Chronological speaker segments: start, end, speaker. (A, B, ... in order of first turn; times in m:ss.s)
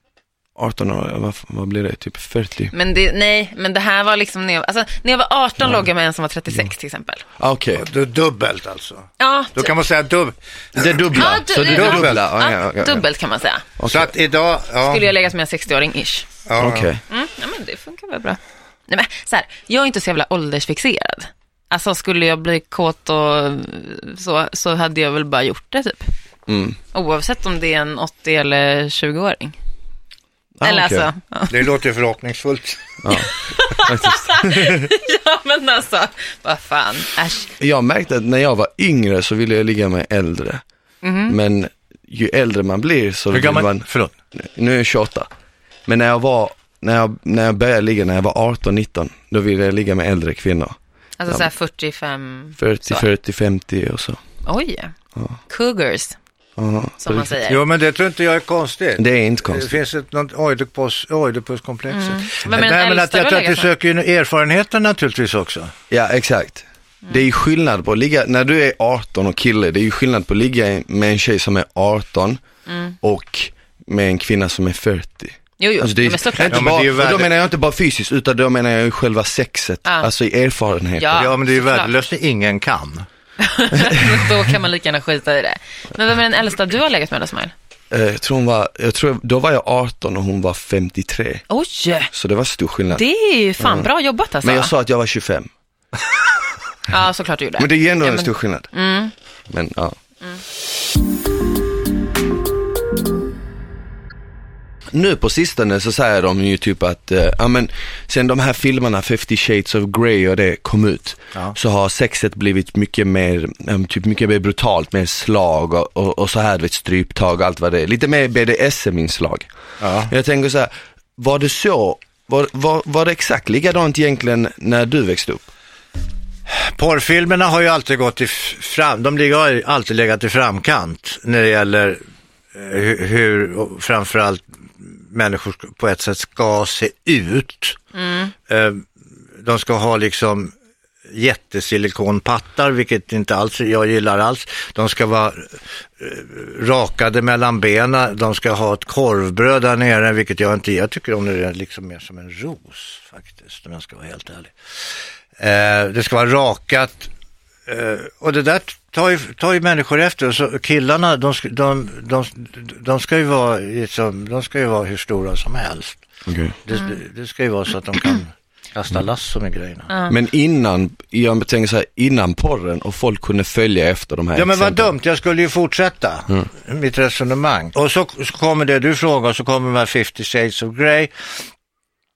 0:00.6-0:02.7 A
0:02.7-0:07.2 B
0:07.4-0:07.9 A
0:07.8-0:12.3 C
0:09.2-0:09.7 B
0:10.8-0:13.0 A
0:11.1-0:13.7 B
0:13.8-0:14.1 A
0:13.9-0:15.1 C
0:14.8-0:16.3 B
0:16.5-0:16.9 C
0:16.6-0:17.0 A
0:17.1-0:26.1 B
0:26.5-0:26.8 A
0:26.9-0:29.6 B
0:30.6-0:31.1 A
0:30.6-0:31.6 B
0:31.5-0:33.0 C
0:33.0-0:34.9 A
0:33.1-0:37.5 B
0:37.6-0:40.6 A
0:41.0-0:41.4 B
0:41.3-0:45.3 A
0:43.3-0:44.1 C
0:45.9-0:51.5 A
0:51.2-0:53.1 B
0:52.6-0:54.2 A
0:54.4-0:54.9 B
0:55.5-0:56.2 B
0:56.6-0:57.4 A
0:57.0-0:57.6 B
0:57.5-1:05.7 C
0:59.0-0:59.8 A
1:01.9-1:03.7 B
1:05.9-1:12.4 A
1:12.7-1:13.0 B
1:13.0-1:21.3 A
1:15.6-1:16.8 B
1:16.4-1:17.3 C
1:21.0-1:21.9 B
1:21.2-1:23.1 C
1:23.4-1:27.5 B
1:27.9-1:31.4 A
1:31.5-1:32.1 B
1:32.1-1:33.0 A
1:32.9-1:34.7 B
1:33.6-1:33.9 A
1:34.4-1:35.5 A
1:36.9-1:39.1 B
1:37.6-1:38.7 A
1:39.5-1:40.0 A
1:44.9-1:59.5 A
1:59.8-2:00.1 C
2:00.1-2:05.5 A
2:06.5-2:12.0 C
2:12.5-2:17.8 C
2:17.9-2:18.3 B
2:18.5-2:20.5 C
2:21.1-2:37.1 C
2:37.7-2:46.0 C
2:46.3-2:46.6 A
2:46.7-2:49.9 C
2:50.1-2:54.9 A
2:54.4-3:01.4 C